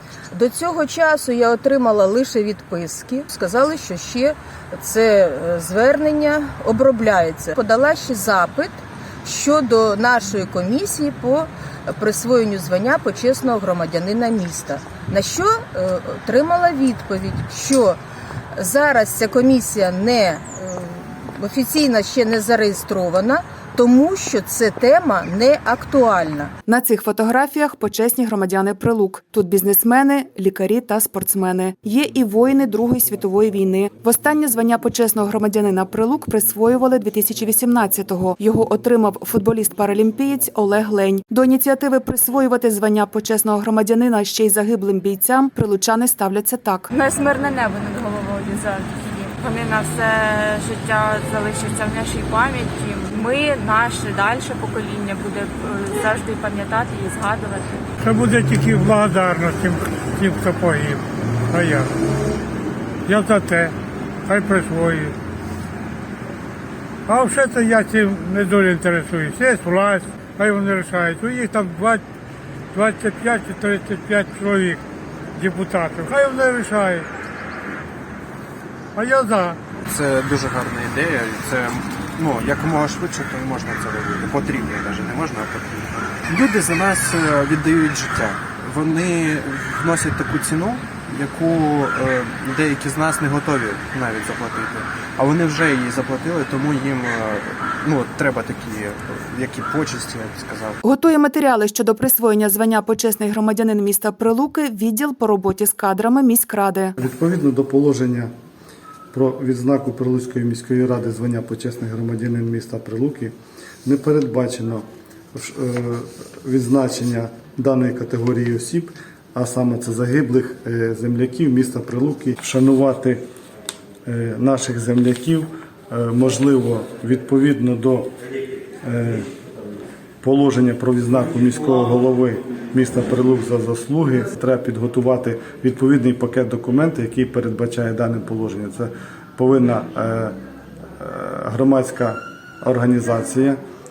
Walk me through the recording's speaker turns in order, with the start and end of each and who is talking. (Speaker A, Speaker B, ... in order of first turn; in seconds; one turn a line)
Speaker A: 0.3-18.0
Speaker A: 18.6-26.5
Speaker B: 26.7-46.9
Speaker C: 46.9-57.9
Speaker D: 58.0-61.9
Speaker D: 63.0-63.7
Speaker D: 64.2-65.1
Speaker D: 67.1-72.0
Speaker D: 72.7-74.8
Speaker D: 75.4-77.1
Speaker D: 79.0-79.6
Speaker E: 79.8-100.8
Speaker B: 100.8-106.9
Speaker F: 107.0-108.3
Speaker F: 109.1-113.3
Speaker F: 113.8-123.2
Speaker F: 124.0-128.1
Speaker F: 128.8-129.3
Speaker F: 130.2-140.3
Speaker F: 141.0-143.6